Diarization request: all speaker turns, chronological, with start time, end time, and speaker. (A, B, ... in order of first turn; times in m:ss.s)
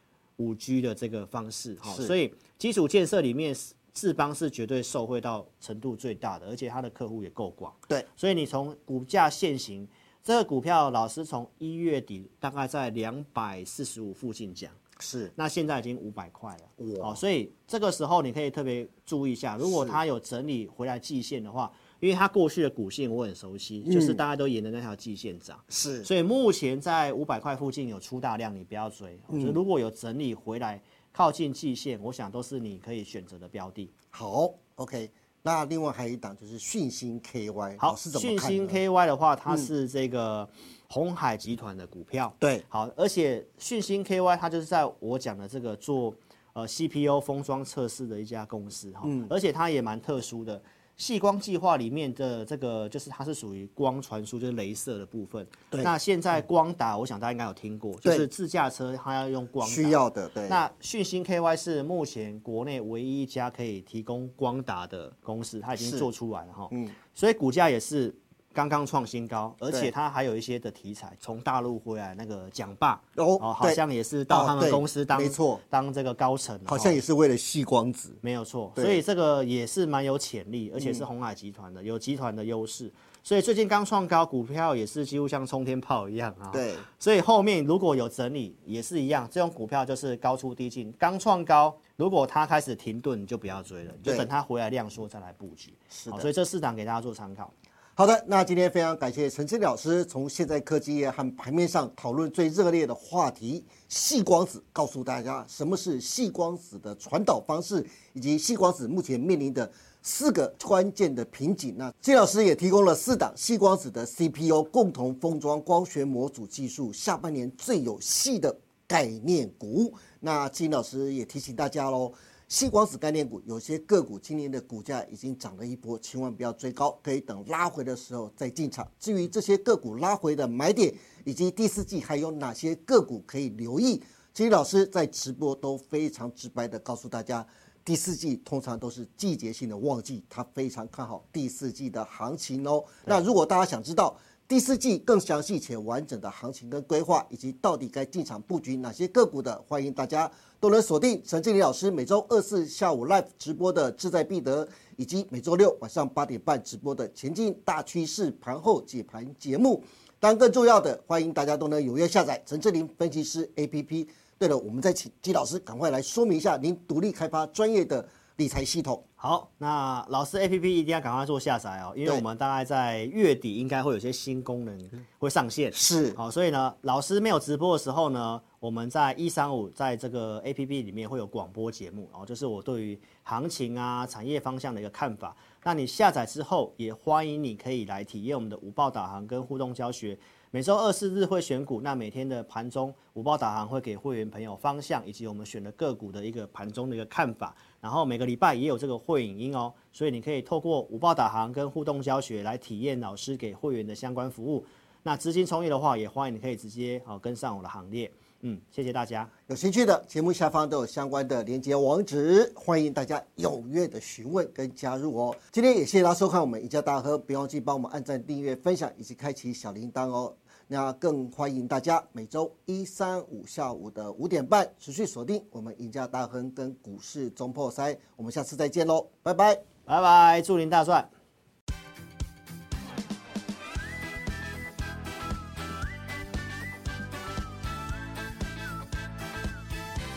0:00.4-0:14.8 A
0:01.8-0:02.1 B
0:15.0-0:15.3 B
0:15.4-0:33.9 A
0:16.8-0:17.2 B
0:19.6-0:20.0 B
0:23.8-0:24.2 B
0:25.7-0:26.1 B
0:29.3-0:29.6 B
0:34.1-0:38.8 B
0:37.8-1:17.0 A
0:49.0-0:49.3 B
0:59.6-1:00.6 B
1:05.8-1:06.1 B
1:13.2-1:15.6 B
1:16.7-1:18.2 B
1:18.2-1:37.5 A
1:18.8-1:19.0 B
1:20.8-1:21.0 B
1:26.5-1:26.8 B
1:35.9-1:36.3 B
1:38.0-2:49.0 B
2:49.2-3:29.3 A
2:55.7-2:56.2 B
3:29.5-3:49.6 B
3:49.8-3:51.1 A